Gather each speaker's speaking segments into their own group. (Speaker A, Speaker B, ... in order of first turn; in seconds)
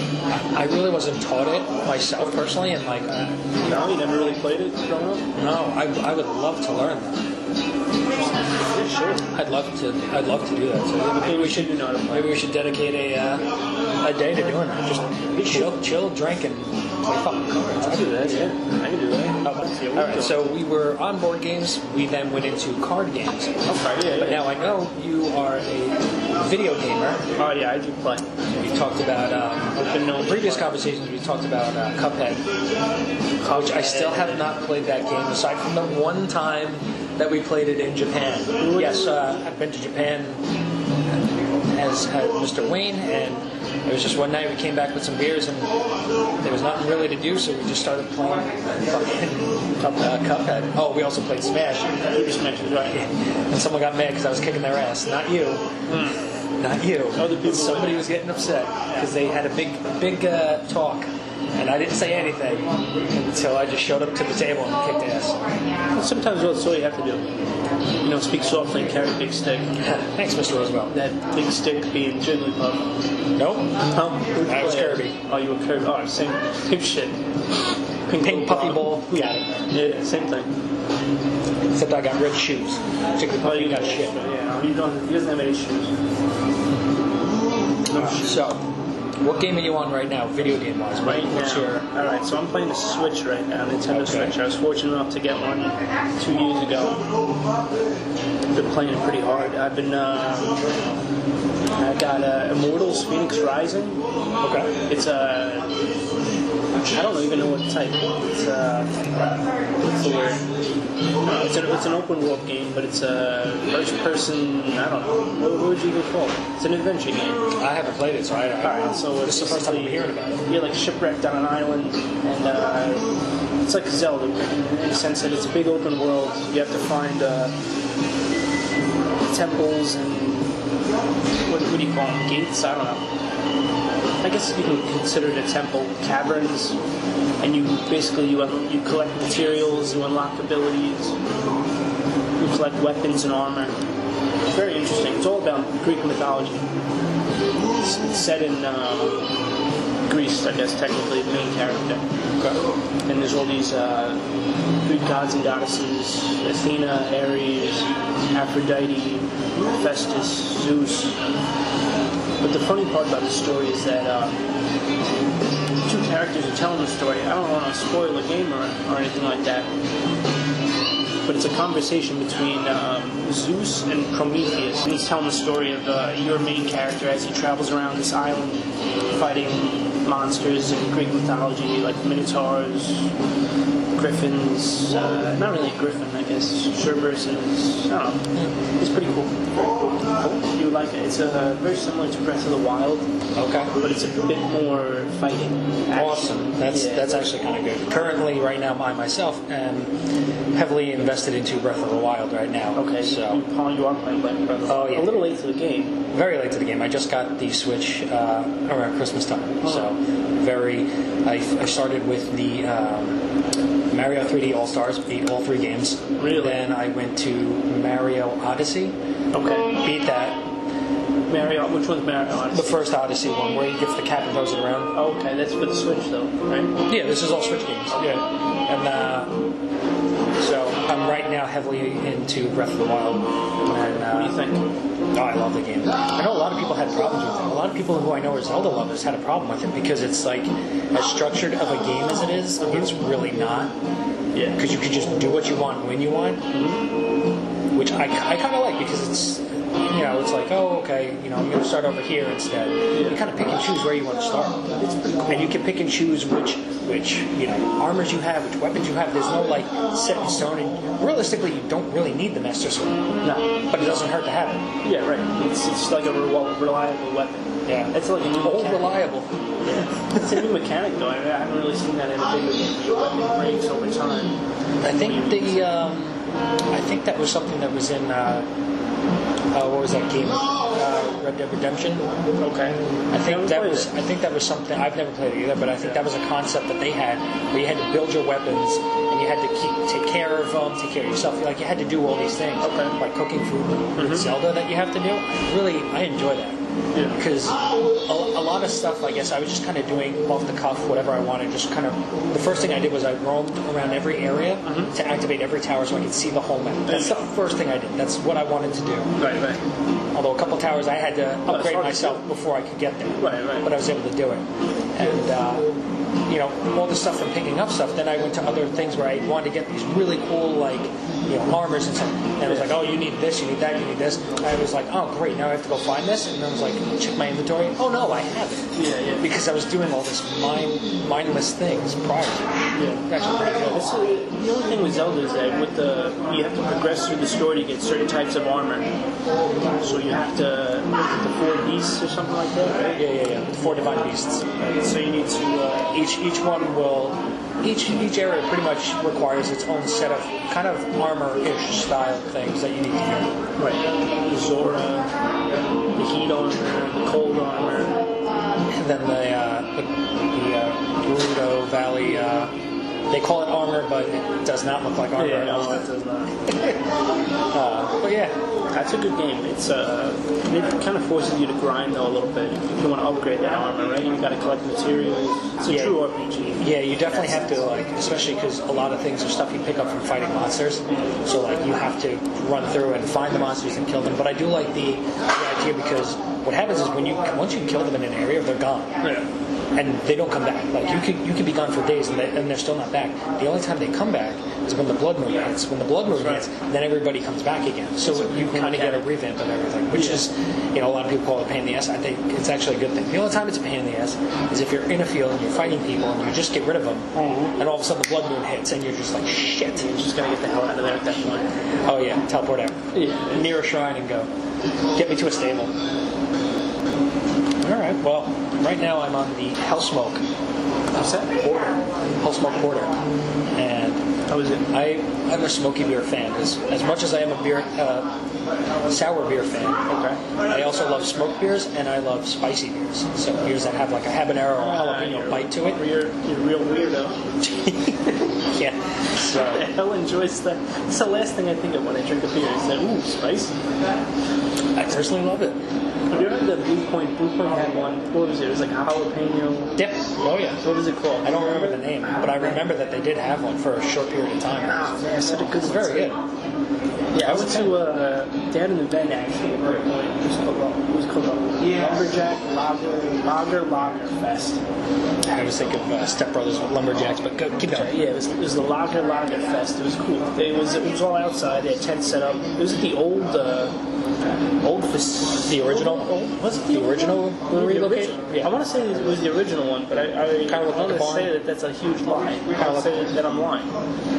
Speaker A: 0.3-3.4, 5.4-7.2, 9.3-13.4, 14.0-18.5, 19.4-23.6, 24.2-27.2, 28.5-32.5, 33.5-40.4, 41.7-45.7, 46.4-52.0, 53.0-55.6, 56.6-65.4, 69.8-70.9, 73.4-73.8, 74.4-75.2, 78.2-79.5, 81.7-84.1, 87.9-88.7, 89.2-91.9, 93.9-94.3, 104.4-104.7, 117.6-120.5, 193.3-193.7, 195.9-199.9, 200.5-203.4, 204.7-205.2, 206.1-213.2, 213.9-219.0, 219.8-220.4, 222.5-224.9, 226.9-229.4, 230.4-234.3, 235.1-243.7, 244.6-246.4, 247.7-254.6, 255.3-263.1, 263.7-264.7, 267.7-270.4, 274.8-276.2, 276.7-278.5, 279.5-282.1, 283.1-296.6, 297.1-309.1, 310.1-314.4, 314.9-315.7, 316.3-332.5, 333.1-333.9, 342.9-344.4, 345.9-353.3, 358.7-362.5, 363.1-365.8, 367.5-368.4, 375.7-376.0, 376.6-389.0, 389.8-409.9, 411.9-412.8, 413.3-414.3, 414.9-415.7, 417.6-420.2, 421.3-423.0, 423.5-424.0, 424.7-428.1, 428.9-429.8, 430.4-435.8, 437.6-439.6, 444.8-445.6, 449.8-450.6, 451.2-455.0, 455.5-456.2, 457.2-457.8, 465.3-468.0, 475.5-478.5, 480.5-481.3, 482.6-483.0
Speaker B: 3.6-5.2, 8.7-9.3, 11.0-12.4, 15.3-15.7, 17.8-20.4, 23.7-24.5, 27.4-28.3, 29.7-30.7, 33.4-34.5, 38.6-39.1, 52.1-53.0, 55.9-56.2, 57.2-58.0, 65.9-67.3, 68.0-69.8, 70.9-72.9, 73.9-77.2, 78.1-80.5, 83.4-85.9, 87.9-88.5, 91.0-97.1, 98.5-100.6, 101.8-104.0, 104.9-105.7, 106.8-109.4, 109.9-110.4, 111.2-117.5, 118.6-123.1, 123.7-127.5, 129.3-130.5, 131.4-133.0, 134.2-136.8, 137.4-141.2, 142.4-143.8, 144.5-146.7, 147.8-149.2, 150.1-152.1, 153.1-154.2, 154.8-161.2, 162.4-164.4, 165.8-169.7, 171.2-183.1, 184.0-188.3, 188.8-189.3, 190.3-193.1, 193.8-197.3, 202.8-205.9, 216.2-216.6, 219.3-219.7, 221.3-222.8, 224.9-226.8, 227.9-228.2, 233.9-234.7, 242.6-242.9, 244.3-244.6, 246.5-246.9, 252.9-253.2, 254.8-255.5, 263.2-264.1, 264.8-269.0, 269.7-275.7, 282.4-283.9, 292.6-293.0, 294.0-294.3, 296.9-297.2, 304.6-304.9, 306.9-307.3, 309.2-309.6, 311.5-312.2, 313.2-313.7, 322.5-322.8, 328.8-329.3, 332.7-333.1, 333.7-338.9, 339.8-343.0, 344.6-346.0, 353.6-355.1, 356.0-358.0, 365.2-366.4, 368.7-377.5, 389.0-389.3, 396.1-396.4, 398.1-399.1, 399.9-400.2, 407.1-407.6, 409.7-411.5, 412.9-413.5, 420.9-421.3, 424.3-424.7, 429.9-430.2, 434.6-437.2, 439.3-443.5, 446.1-449.8, 450.6-451.8, 454.7-456.2, 457.1-464.6, 467.7-473.7, 474.6-483.7